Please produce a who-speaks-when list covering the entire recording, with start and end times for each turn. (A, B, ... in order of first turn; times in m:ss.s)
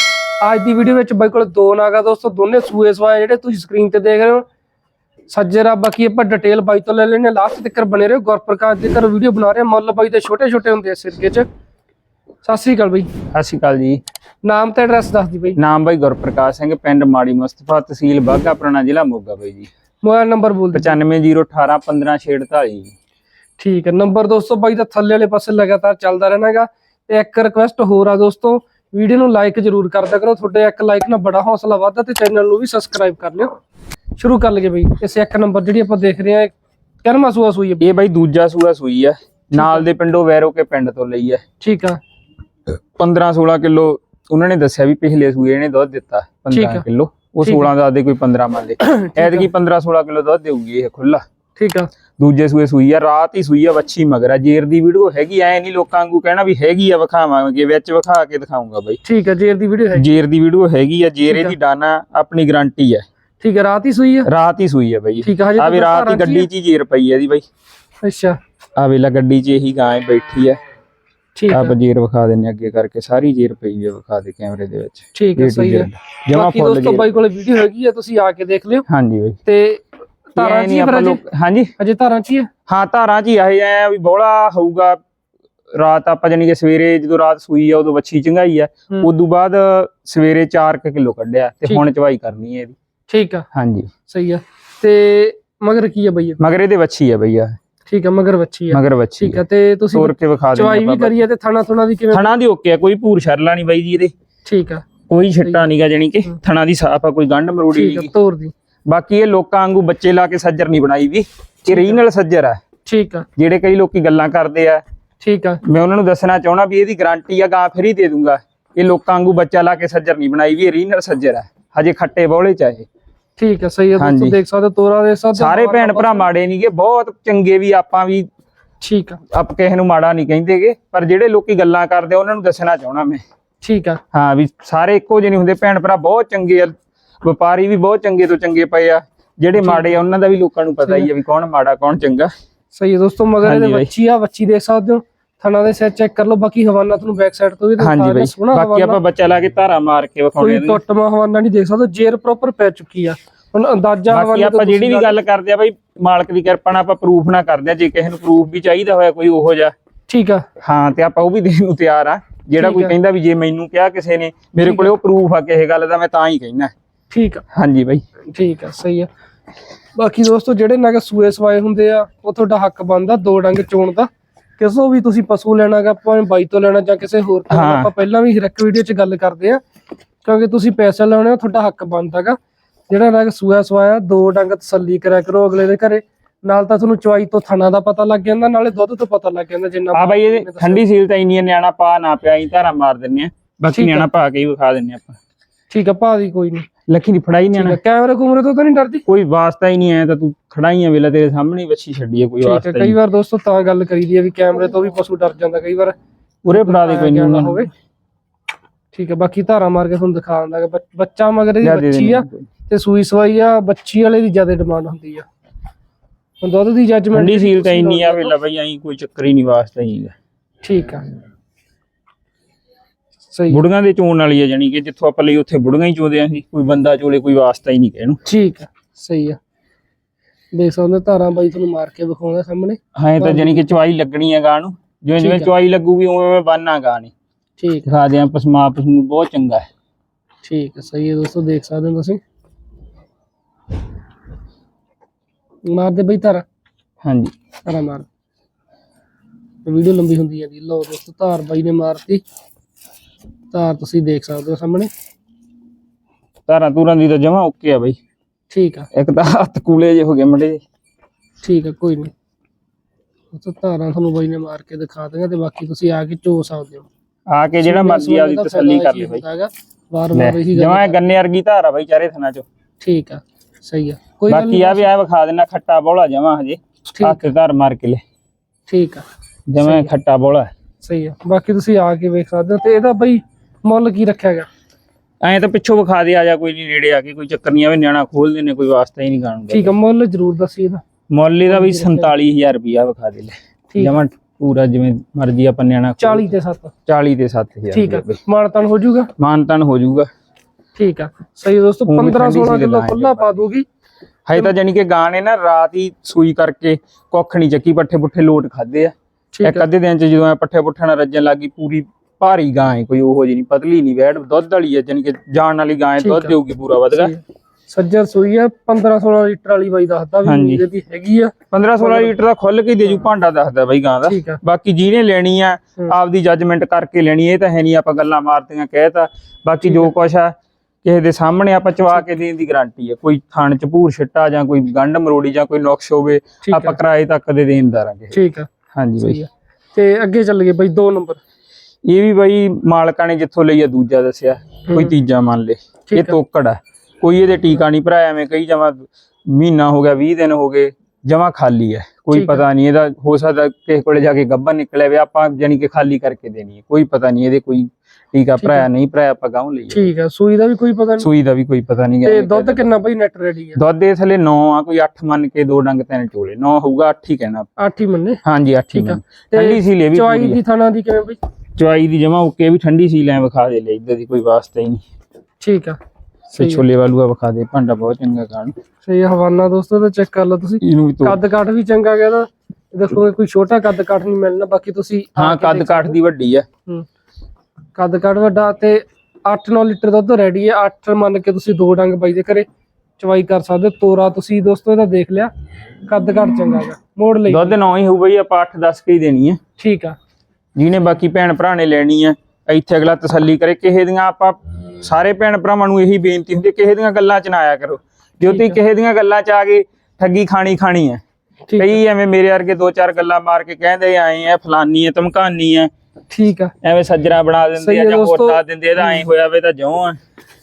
0:00.4-0:04.4 A
0:05.3-0:11.4 A
0:12.4-0:13.1 A
0:13.3-0:14.0 B
0:14.4-0:15.6 A
0:15.6-0:19.7 B
0:20.0-0:21.0 A
0:20.7-0:22.9 B
0:23.6-0:33.5 A
0:34.2-0:36.5 A
0:37.0-0:37.8 A
0:37.8-0:41.4 B
0:39.6-0:39.8 A
0:41.6-0:42.0 A
0:43.0-0:51.2 B
0:46.5-0:46.8 A
0:47.4-0:47.7 A
0:48.8-0:49.5 A
0:51.6-0:51.9 A
0:52.2-0:59.0 B
0:59.0-1:00.2 A
1:00.0-1:03.0 B
1:01.3-1:01.5 A
1:03.4-1:04.3 A
1:04.3-1:07.4 B
1:05.2-1:06.5 A
1:08.0-1:08.4 A
1:08.8-1:10.6 B
1:11.4-1:11.8 A
1:11.5-1:17.1 B
1:15.1-1:18.8 A
1:18.9-1:19.4 B
1:19.4-1:21.2 A
1:20.4-1:21.7 B
1:21.8-1:22.5 A
1:22.7-1:25.0 B
1:25.8-1:32.8 B
1:33.1-1:33.5 A
1:33.5-1:33.9 B
1:34.1-1:36.4 A
1:36.4-1:37.5 B
1:37.9-1:42.3 A
1:38.7-1:39.4 B
1:39.9-1:41.2 B
1:42.1-1:44.1 B
1:44.4-1:44.8 A
1:45.1-1:48.1 B
1:47.7-1:48.5 A
1:48.9-1:52.6 B
1:51.6-1:52.0 A
1:52.8-1:53.2 A
1:53.4-1:54.8 B
1:55.2-1:55.6 A
1:55.6-2:02.8 B
2:03.4-2:06.3 A
2:04.0-2:04.4 B
2:05.3-2:08.3 B
2:08.8-2:09.2 A
2:09.3-2:13.2 B
2:13.6-2:14.0 A
2:14.1-2:22.3 B
2:19.6-2:20.0 A
2:22.7-2:29.0 A
2:23.4-2:23.9 B
2:27.8-2:30.8 B
2:30.4-2:35.2 A
2:34.1-2:39.7 B
2:40.1-2:40.4 A
2:40.6-2:46.7 B
2:42.6-2:42.9 A
2:44.6-2:44.9 A
2:47.1-2:47.4 A
2:47.5-2:48.0 B
2:48.3-2:49.1 A
2:50.0-2:59.6 A
2:57.5-2:57.9 B
3:00.2-3:02.4 A
3:02.9-3:10.8 A
3:09.9-3:15.2 B
3:13.7-3:14.1 A
3:15.7-3:16.7 A
3:16.9-3:17.8 B
3:17.5-3:19.0 A
3:19.1-3:23.0 B
3:22.4-3:25.9 A
3:26.4-3:27.7 B
3:26.5-3:27.7 A
3:28.9-3:35.2 A
3:31.6-3:32.4 B
3:36.4-3:38.3 A
3:37.1-3:40.1 B
3:40.6-3:41.0 A
3:43.3-3:43.6 A
3:43.5-3:48.2 B
3:48.2-3:49.4 A
3:50.5-3:53.7 A
3:53.0-3:57.1 B
3:55.2-3:55.5 A
3:57.6-3:57.9 A
3:57.9-3:59.7 B
4:00.4-4:02.2 A
4:05.6-4:06.4 A
4:07.0-4:07.3 B
4:07.6-4:08.0 A
4:09.6-4:12.2 A
4:13.5-4:14.9 A
4:16.5-4:18.0 B
4:18.5-4:18.9 A
4:18.9-4:20.6 B
4:21.4-4:22.1 A
4:23.3-4:26.9 A
4:27.3-4:29.2 B
4:27.6-4:31.0 A
4:30.1-4:32.4 B
4:32.8-4:34.9 A
4:34.3-4:38.0 B
4:36.9-4:37.2 A
4:38.7-4:39.0 A
4:39.5-4:40.5 B
4:39.6-4:39.9 A
4:40.8-4:44.5 A
4:45.2-4:49.7 B
4:49.5-4:50.8 A
4:51.1-4:56.3 B
4:51.5-4:52.1 A
4:53.7-4:54.0 A
4:56.0-4:56.7 A
4:56.9-4:58.2 B
4:57.7-4:59.1 A
4:59.2-5:00.1 B
5:00.8-5:03.6 A
5:01.9-5:03.4 B
5:04.3-5:08.9 B
5:09.3-5:09.7 A
5:09.4-5:17.1 B
5:16.0-5:16.3 A
5:16.9-5:22.1 A
5:20.2-5:20.7 B
5:21.5-5:38.1 B
5:24.0-5:24.4 A
5:29.6-5:29.9 A
5:36.4-5:36.8 A
5:38.1-5:41.2 A
5:38.7-5:39.2 B
5:41.8-5:59.8 B
5:44.7-5:44.9 A
5:45.9-5:46.2 A
5:52.1-5:52.4 A
5:58.4-5:58.7 A
5:59.7-6:01.1 A
6:01.0-6:02.6 B
6:02.0-6:03.6 A
6:03.6-6:07.5 B
6:07.6-6:08.2 A
6:08.2-6:10.4 B
6:08.7-6:11.2 A
6:11.6-6:14.8 B
6:15.4-6:15.8 A
6:16.3-6:16.6 A
6:16.4-6:18.5 B
6:18.8-6:26.0 A
6:20.6-6:21.2 B
6:25.2-6:26.4 B
6:27.8-6:32.4 A
6:33.0-6:35.3 A
6:35.8-6:37.6 A
6:37.3-6:39.4 B
6:39.6-6:40.0 A
6:40.6-6:51.0 B
6:48.2-6:48.6 A
6:51.5-6:51.8 A
6:51.6-6:55.7 B
6:56.1-6:56.5 A
6:56.6-7:00.0 B
6:57.6-6:59.0 A